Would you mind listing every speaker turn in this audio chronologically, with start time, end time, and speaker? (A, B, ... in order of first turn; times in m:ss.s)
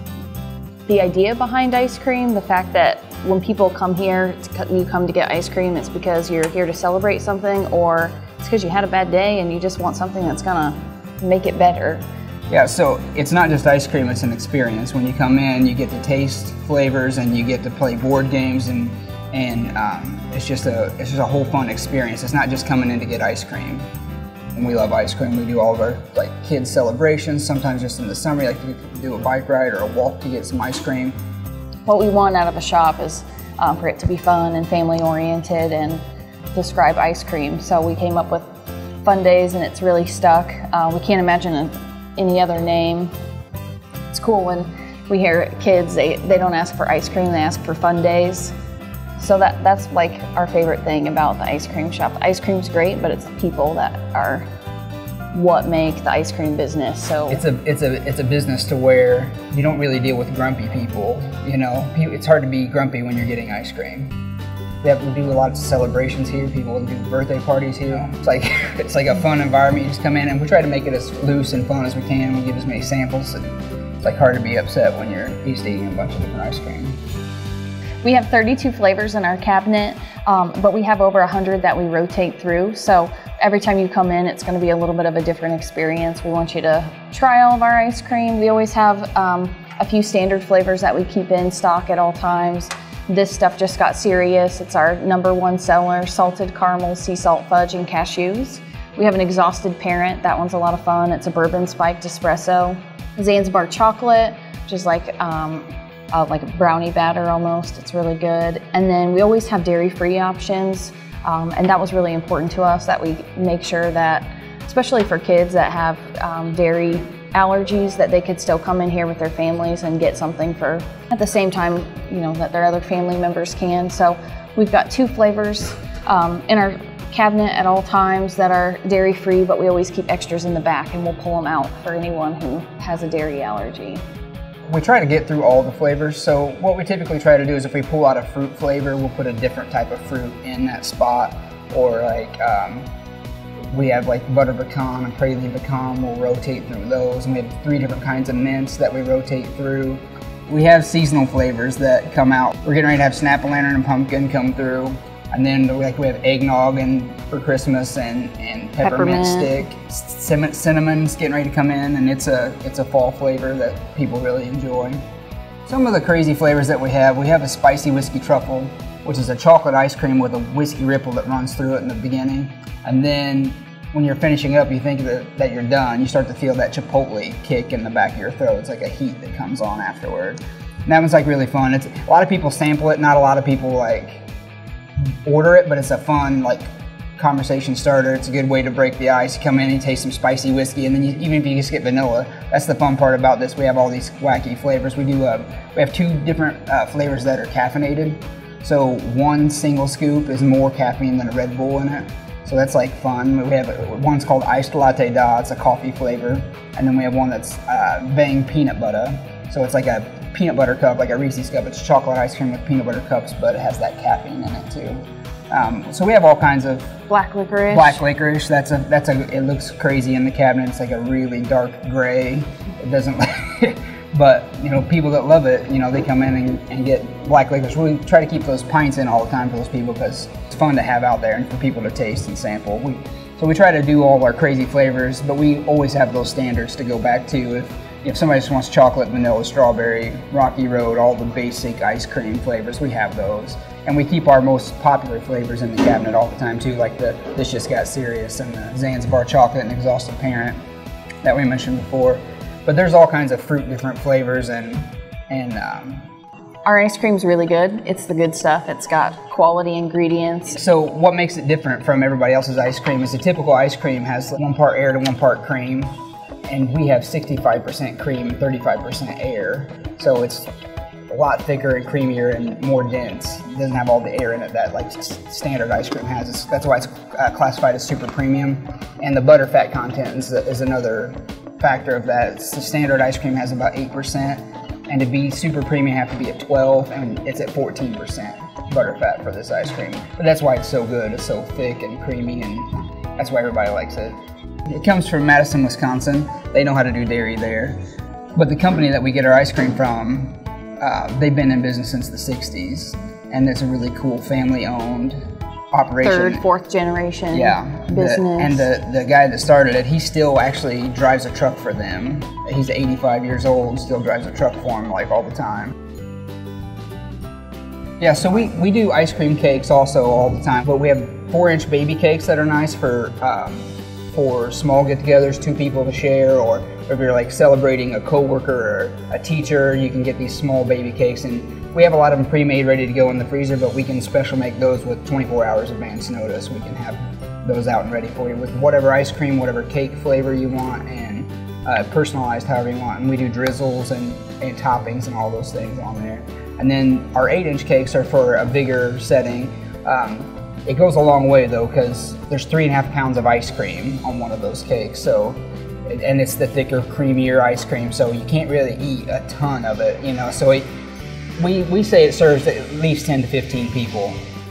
0:00.9-0:12.0 A
0:12.5-0:23.9 B
0:24.6-0:31.2 B
0:31.9-0:36.0 A
0:36.5-0:38.5 A
0:39.0-0:43.1 A
0:44.1-0:48.5 A
0:49.2-0:54.5 A
0:55.3-0:57.4 A
0:57.3-1:04.2 B
1:04.8-1:13.4 B
1:14.0-1:17.0 B
1:18.0-2:14.0 A
2:14.7-2:22.9 B
2:23.7-2:45.0 B
2:38.8-2:39.5 A
2:45.7-3:04.2 B
3:05.2-3:37.0 B
3:37.1-3:38.0 A
3:37.7-4:10.6 B
4:11.2-4:16.1 B
4:16.6-4:20.6 A
4:20.6-4:25.9 B
4:26.5-4:30.5 B
4:31.1-4:57.8 B
4:58.4-5:05.2 B
5:05.7-5:06.4 B
5:06.0-5:08.7 A
5:07.3-5:15.7 B
5:18.0-6:00.7 B
6:01.4-6:04.2 B